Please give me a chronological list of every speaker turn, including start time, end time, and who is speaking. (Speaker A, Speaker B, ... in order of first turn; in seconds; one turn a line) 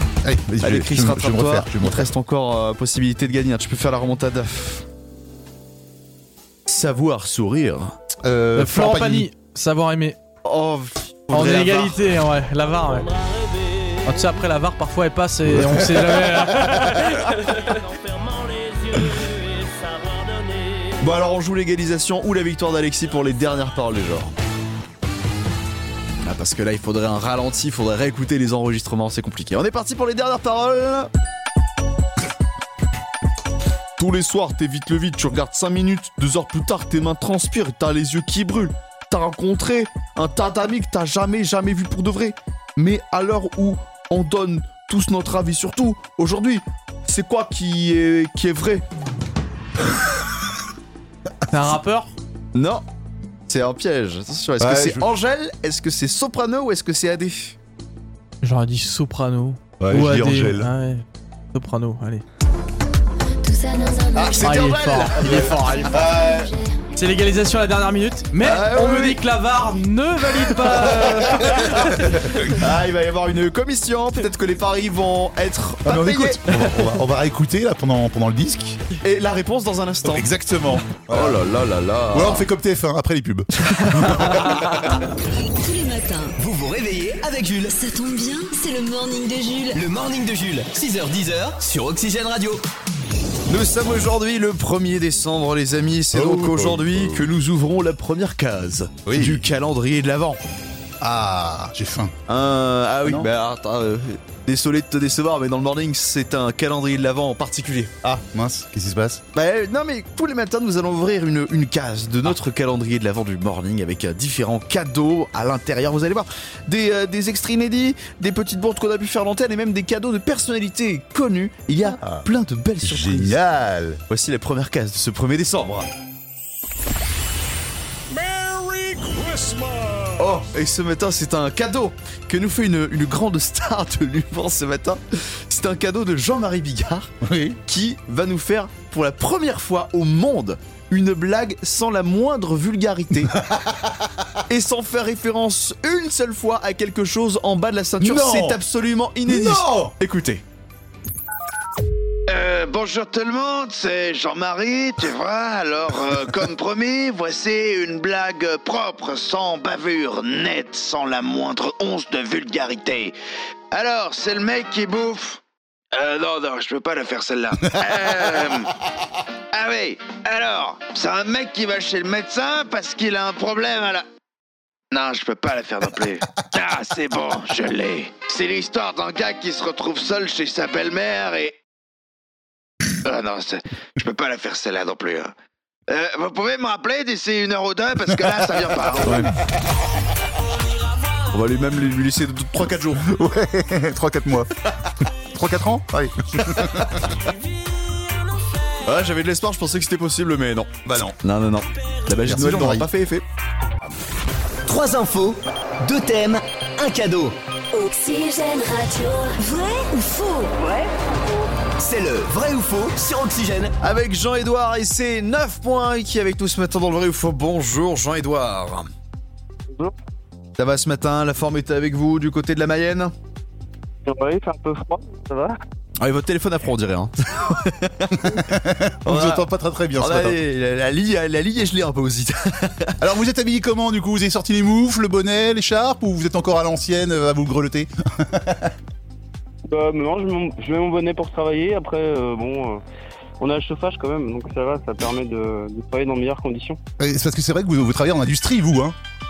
Speaker A: 0.2-2.1
Speaker B: 0.6-4.8
Speaker B: 6.7-8.0
Speaker A: 8.2-9.3
Speaker C: 8.6-10.2
Speaker B: 10.4-12.0
Speaker C: 11.3-13.1
Speaker C: 14.0-17.8
Speaker A: 15.5-17.0
Speaker B: 21.0-24.3
Speaker B: 26.2-31.1
Speaker B: 34.0-48.8
Speaker C: 51.5-52.1
Speaker B: 52.5-52.8
Speaker B: 53.5-57.5
Speaker A: 54.6-55.0
Speaker C: 58.4-62.2
Speaker A: 59.8-60.7
Speaker D: 63.4-64.7
Speaker B: 64.2-66.4
Speaker C: 64.3-66.0
Speaker D: 65.8-66.8
Speaker C: 67.0-72.2
Speaker B: 68.4-69.2
Speaker B: 71.4-71.8
Speaker B: 72.4-76.4
Speaker A: 75.8-78.8
Speaker B: 79.0-80.3
Speaker A: 80.0-81.4
Speaker B: 81.1-82.5
Speaker A: 82.1-85.0
Speaker B: 83.7-84.6
Speaker D: 85.6-86.3
Speaker E: 86.3-88.1
Speaker D: 88.5-89.5
Speaker E: 89.7-92.6
Speaker B: 93.5-100.4
Speaker A: 96.1-97.3
Speaker A: 99.0-99.4
Speaker A: 101.0-102.1
Speaker B: 102.3-107.9
Speaker A: 108.0-109.2
Speaker B: 109.3-123.4
Speaker A: 122.8-124.0
Speaker B: 124.1-125.9
Speaker A: 128.9-129.6
Speaker B: 130.1-137.1
Speaker A: 137.2-137.6
Speaker B: 137.7-143.4
Speaker A: 143.3-144.1
Speaker B: 144.5-150.4
Speaker A: 148.0-148.6
Speaker A: 149.2-149.9
Speaker F: 152.3-163.1
Speaker F: 163.7-165.4
Speaker F: 165.9-168.7
Speaker F: 169.5-174.1
Speaker F: 174.9-181.6
Speaker F: 183.0-185.3
Speaker F: 185.9-189.3
Speaker B: 189.0-189.3
Speaker B: 191.3-193.1
Speaker A: 193.0-194.5
Speaker A: 195.0-197.2
Speaker B: 198.8-203.2
Speaker A: 200.8-201.2
Speaker A: 202.2-202.9
Speaker E: 204.7-207.4
Speaker D: 207.7-210.7
Speaker E: 211.8-213.7
Speaker B: 213.8-218.9
Speaker B: 220.6-223.1
Speaker G: 224.1-225.6
Speaker B: 226.0-228.4
Speaker A: 228.1-230.4
Speaker B: 229.0-229.4
Speaker B: 230.0-233.0
Speaker A: 233.0-238.7
Speaker G: 239.7-242.8
Speaker G: 243.4-246.8
Speaker A: 247.0-248.9